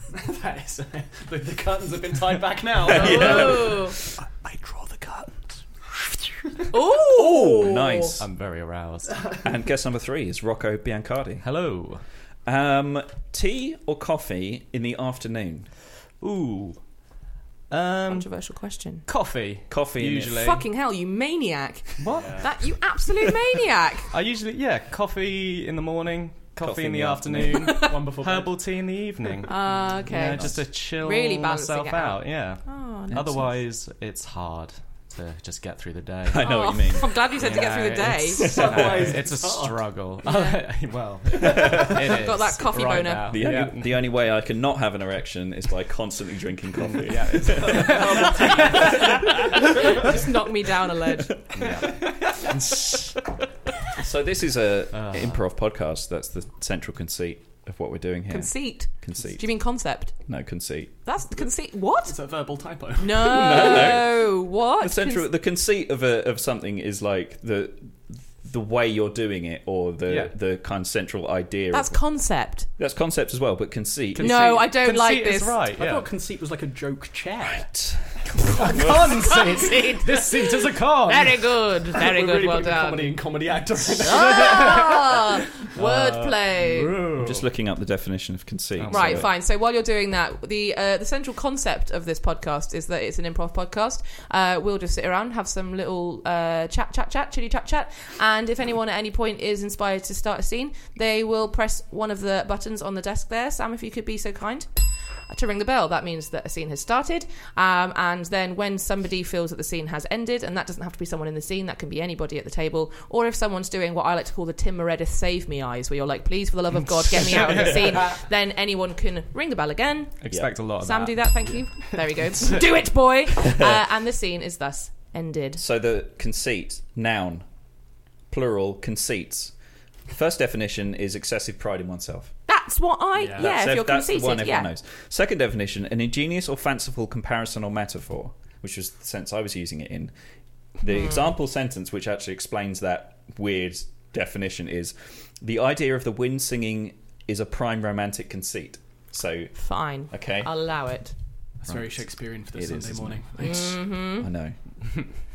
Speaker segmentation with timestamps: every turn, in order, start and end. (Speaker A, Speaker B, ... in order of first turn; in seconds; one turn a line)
Speaker A: 0.1-6.7
Speaker B: 2.8-3.9
Speaker C: 3.0-4.0
Speaker C: 6.7-8.2
Speaker B: 7.1-8.3
Speaker D: 8.2-9.3
Speaker B: 9.4-11.5
Speaker D: 11.4-12.0
Speaker B: 12.4-15.7
Speaker D: 16.2-16.9
Speaker D: 17.7-18.3
Speaker C: 18.1-19.1
Speaker D: 19.1-20.7
Speaker B: 19.7-20.5
Speaker C: 20.4-24.1
Speaker D: 22.0-22.6
Speaker A: 22.1-22.5
Speaker D: 24.1-36.8
Speaker B: 26.6-27.9
Speaker A: 27.7-28.6
Speaker C: 29.5-33.5
Speaker B: 30.1-30.6
Speaker B: 36.3-37.2
Speaker C: 36.4-38.5
Speaker D: 37.4-44.0
Speaker A: 38.4-39.8
Speaker B: 38.4-39.2
Speaker C: 40.2-40.6
Speaker B: 41.6-41.9
Speaker C: 42.1-43.4
Speaker B: 43.3-49.6
Speaker D: 46.8-48.9
Speaker A: 47.4-49.1
Speaker C: 49.8-51.6
Speaker D: 51.5-53.0
Speaker A: 52.0-52.5
Speaker B: 54.0-59.5
Speaker D: 54.9-55.4
Speaker C: 58.3-60.2
Speaker B: 60.3-61.0
Speaker C: 61.0-62.2
Speaker A: 62.1-63.9
Speaker C: 63.0-65.3
Speaker B: 63.2-72.0
Speaker D: 70.1-70.3
Speaker C: 71.7-72.7
Speaker B: 72.7-74.4
Speaker D: 74.2-76.1
Speaker C: 74.2-75.6
Speaker E: 75.7-77.7
Speaker B: 77.5-78.2
Speaker D: 78.4-81.5
Speaker C: 79.2-83.2
Speaker A: 81.9-84.8
Speaker C: 84.0-87.0
Speaker D: 84.1-84.9
Speaker D: 85.7-87.5
Speaker B: 87.2-89.3
Speaker D: 88.8-89.3
Speaker C: 88.9-104.7
Speaker C: 105.3-125.6
Speaker D: 120.2-121.6
Speaker A: 121.8-122.1
Speaker B: 123.5-123.7
Speaker B: 125.6-127.5
Speaker B: 128.3-129.5
Speaker B: 130.1-132.3
Speaker C: 132.5-134.7
Speaker B: 133.3-140.1
Speaker B: 140.8-150.5
Speaker C: 140.8-141.3
Speaker C: 149.6-151.1
Speaker A: 151.6-153.7
Speaker B: 152.5-154.6
Speaker C: 153.4-154.3